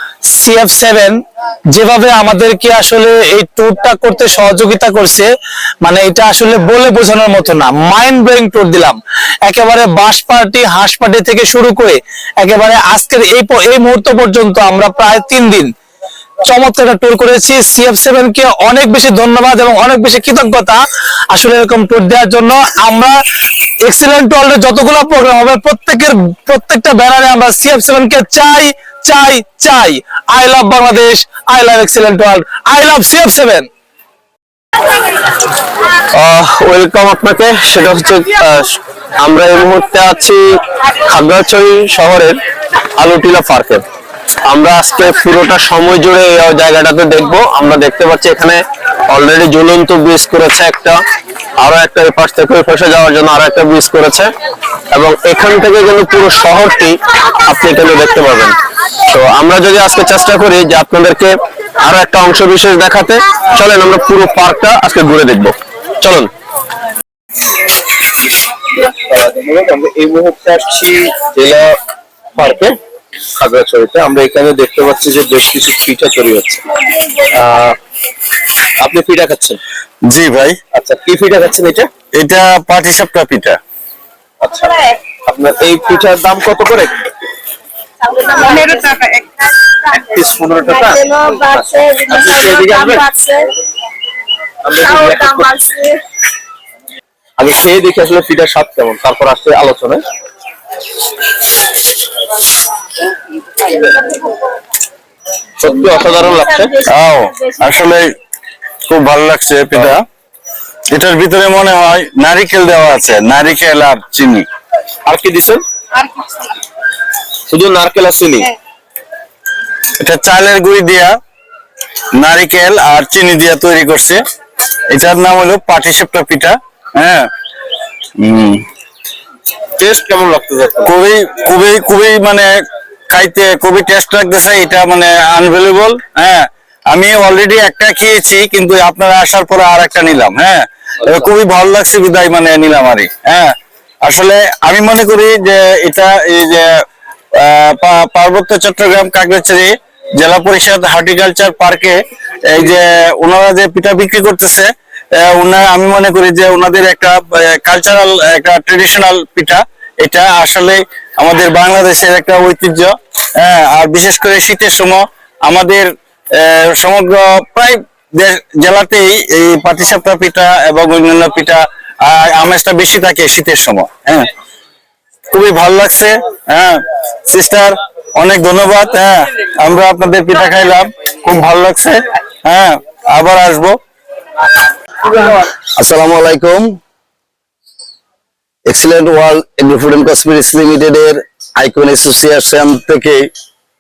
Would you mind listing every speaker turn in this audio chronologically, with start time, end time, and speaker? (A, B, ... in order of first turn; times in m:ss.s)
0:00.3-0:01.2 A
0:01.7-0:05.3 A
0:05.8-0:15.7 A
0:16.4-0:23.2 A
0:23.9-0:33.7 A
0:36.1-0:40.4 B
0:41.0-0:42.4 B
0:43.0-0:43.8 B
0:44.5-0:51.0 B
0:51.6-0:54.3 B
0:54.9-0:58.6 B
0:59.1-1:06.3 B
1:08.8-1:11.8 B
1:12.4-1:12.8 B
1:13.4-1:16.6 B
1:17.3-1:17.8 B
1:18.8-1:19.6 B
1:20.1-1:20.6 C
1:20.7-1:21.9 B
1:22.2-1:23.6 C
1:24.4-1:27.0 B
1:28.0-1:33.5 D
1:30.0-1:33.0 B
1:34.6-1:35.5 B
1:34.8-1:36.0 D
1:37.4-1:40.0 B
1:45.6-1:46.9 B
1:46.9-1:48.1 C
1:48.9-1:50.0 C
1:50.9-1:54.5 C
1:55.1-1:55.6 B
1:57.5-1:58.5 B
2:00.0-2:01.2 C
2:02.2-2:04.2 C
2:04.9-2:07.3 C
2:08.2-2:08.6 C
2:09.8-2:10.9 B
2:10.8-2:12.5 C
2:13.1-2:23.5 C
2:24.0-2:26.7 C
2:27.4-2:54.3 C
2:55.3-3:03.8 C
3:05.8-3:06.7 E
3:08.7-3:13.3 E